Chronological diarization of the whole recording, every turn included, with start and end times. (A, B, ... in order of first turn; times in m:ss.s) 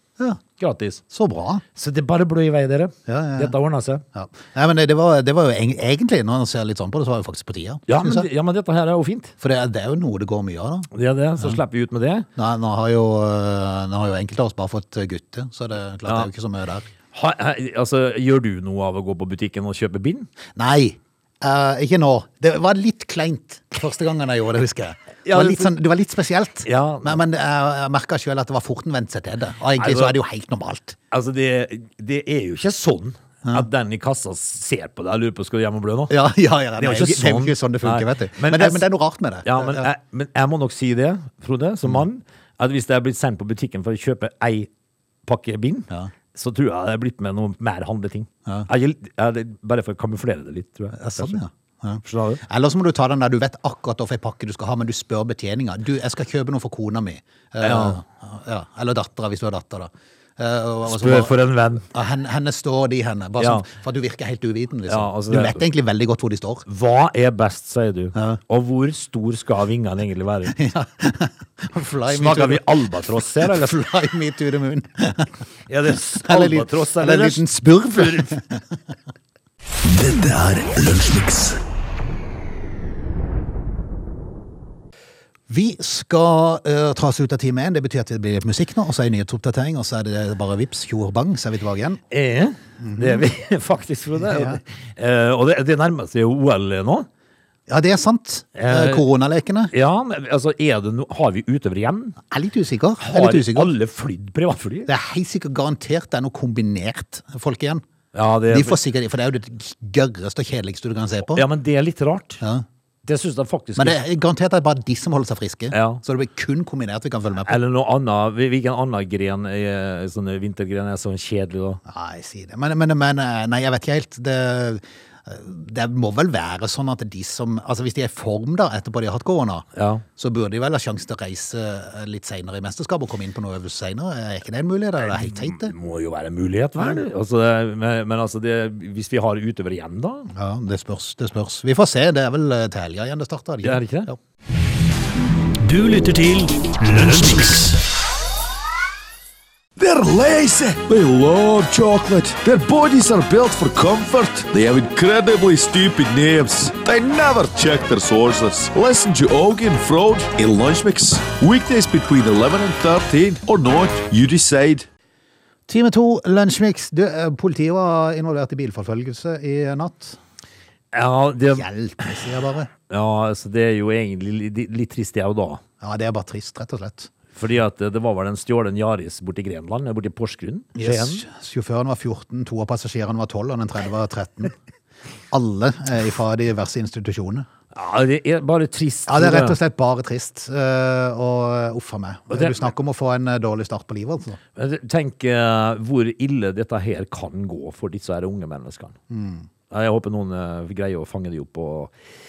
0:00.6-0:01.0 A
0:01.1-0:01.6 B
0:01.8-0:04.0 A
0:03.1-0:03.6 B
0:04.1-0:08.3 B
0:07.9-0:09.4 A
0:09.4-0:10.9 B
0:10.9-0:12.3 A
0:12.4-0:16.9 B
0:17.1-0:20.3 A
0:20.6-0:31.0 B
0:25.3-0:25.7 A
0:26.6-0:27.2 A
0:29.8-0:30.2 A
0:31.1-0:36.1 A
0:36.1-0:39.9 B
0:36.8-0:38.9 A
0:39.4-0:44.7 A
0:45.3-0:51.4 A
0:50.9-1:01.3 B
0:52.1-0:52.4 A
0:57.6-0:58.0 A
1:00.9-1:01.8 A
1:01.9-1:06.7 B
1:03.4-1:03.6 A
1:04.9-1:05.6 A
1:06.7-1:10.6 A
1:08.2-1:08.4 B
1:10.5-1:15.3 B
1:12.1-1:13.8 A
1:15.7-1:18.4 A
1:16.2-1:18.6 B
1:19.9-1:21.6 C
1:25.5-1:32.0 B
1:32.1-1:37.1 A
1:32.8-1:33.2 B
1:34.2-1:34.6 B
1:37.7-1:39.7 B
1:38.6-1:39.0 A
1:39.7-1:42.2 A
1:42.3-1:43.7 B
1:43.0-1:44.9 A
1:44.9-1:47.8 B
1:48.1-1:48.8 A
1:48.5-1:51.4 B
1:51.3-1:52.4 A
1:53.0-1:54.0 A
1:53.8-1:57.6 B
1:55.7-1:56.0 A
1:57.5-2:01.8 A
2:01.9-2:09.6 B
2:09.8-2:10.0 A
2:10.2-2:15.7 B
2:15.1-2:20.3 A
2:20.3-2:24.2 B
2:23.6-2:24.1 A
2:25.6-2:27.8 C
2:29.8-2:44.9 D
2:45.7-2:50.2 B
2:50.9-2:51.6 A
2:51.5-2:52.7 B
2:52.9-2:55.6 A
2:55.8-2:57.1 B
2:57.4-3:01.2 A
3:00.8-3:04.5 B
3:05.3-3:07.5 B
3:07.7-3:09.6 A
3:09.1-3:14.4 B
3:12.3-3:12.7 A
3:14.6-3:19.0 A
3:19.1-3:19.5 B
3:19.7-3:21.9 A